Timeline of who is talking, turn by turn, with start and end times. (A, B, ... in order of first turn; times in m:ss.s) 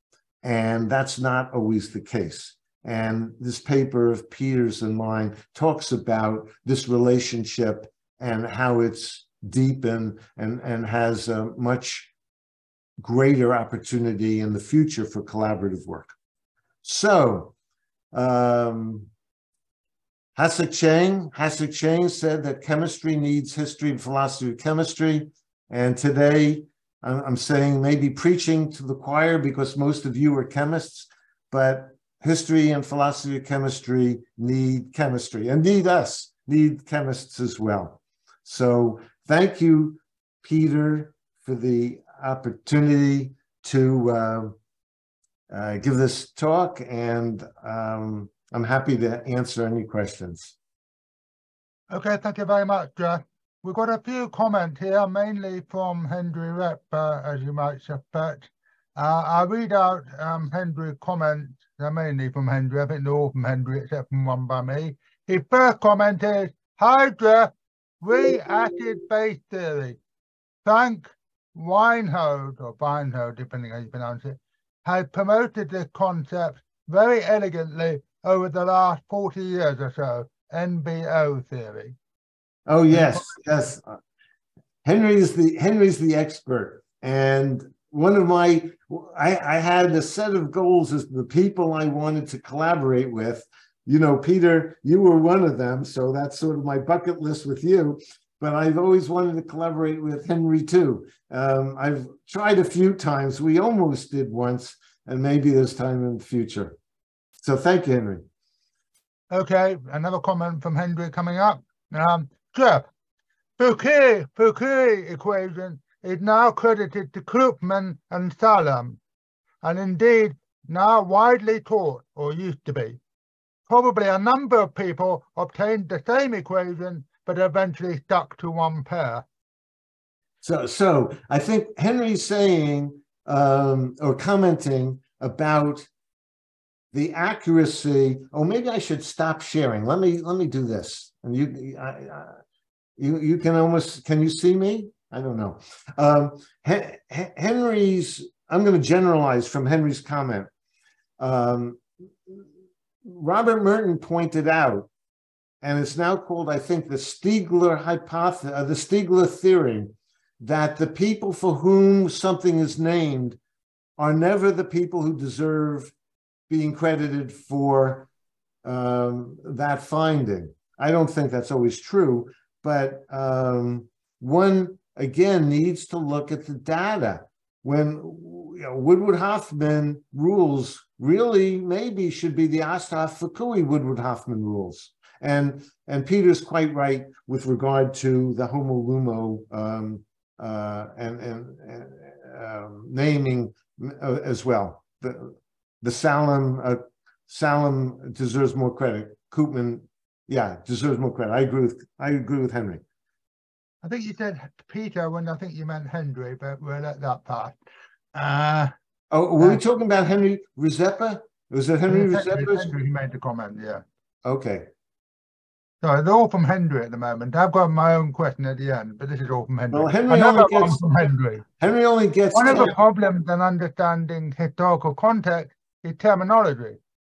0:00.4-0:12.1 A
0:13.0-0:16.1 A
0:16.8-0:17.5 A
0:18.1-0:19.1 A
0:20.4-0:44.5 A
0:45.5-0:50.6 A
0:51.9-1:10.0 B
1:10.6-1:22.0 B
1:22.7-1:24.0 A
1:22.9-1:23.4 B
1:24.8-1:46.8 A
1:47.4-1:48.2 A
1:49.3-1:52.9 B
1:53.6-1:59.0 B
1:59.6-2:03.0 B
2:03.7-2:09.2 B
2:10.4-2:15.9 A
2:16.9-2:22.4 A
2:23.0-2:30.5 A
2:31.2-2:32.4 A
2:33.0-2:34.9 A
2:35.6-2:43.4 A
2:44.0-2:45.9 A
2:46.5-2:48.1 A
2:48.6-3:22.8 A
3:23.8-3:27.6 B
3:28.1-3:28.7 B
3:29.1-3:32.7 A
3:31.9-3:33.8 B
3:34.2-3:34.7 A
3:35.8-3:41.4 B
3:39.7-3:40.8 A
3:41.6-3:42.8 A
3:42.3-3:46.8 B